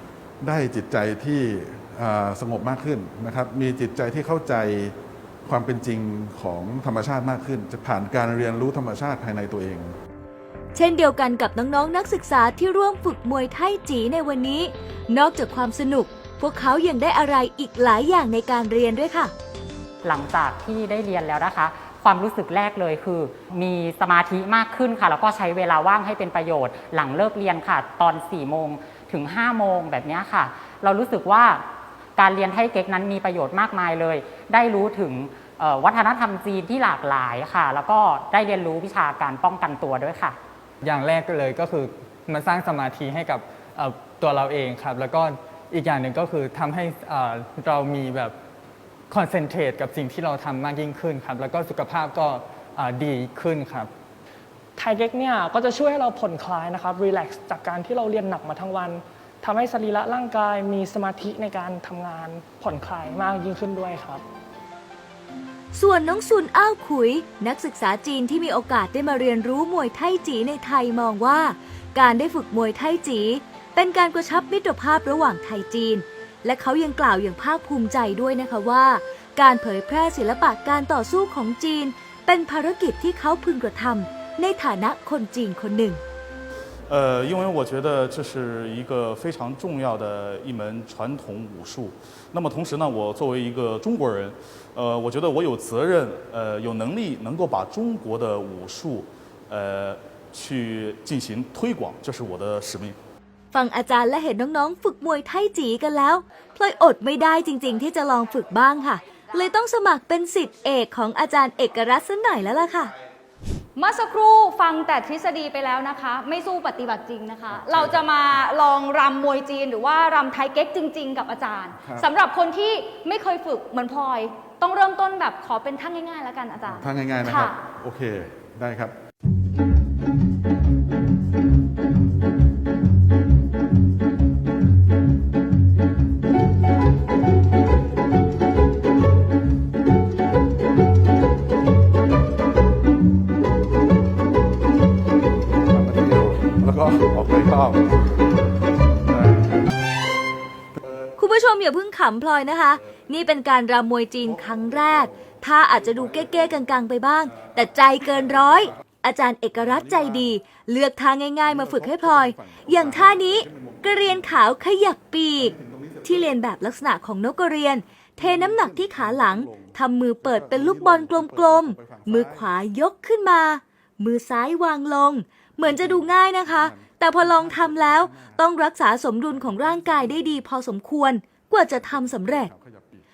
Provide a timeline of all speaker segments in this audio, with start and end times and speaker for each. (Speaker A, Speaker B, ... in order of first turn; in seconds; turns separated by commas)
Speaker A: 0.4-5.0, Speaker A: 5.5-9.9, Speaker B: 10.8-19.3, Speaker C: 20.0-31.7, Speaker C: 32.2-40.4, Speaker D: 40.8-48.4, Speaker D: 49.1-53.9, Speaker E: 54.8-64.2, Speaker B: 65.7-86.0, Speaker F: 86.9-103.0, Speaker B: 103.5-112.9, Speaker G: 113.8-127.6, Speaker A: 126.7-128.9, Speaker A: 145.7-148.1, Speaker A: 149.1-149.5, Speaker B: 151.2-182.5, Speaker A: 161.5-164.1, Speaker A: 165.4-166.3, Speaker A: 168.2-172.5, Speaker A: 175.6-178.4, Speaker A: 179.4-180.2, Speaker A: 181.8-183.0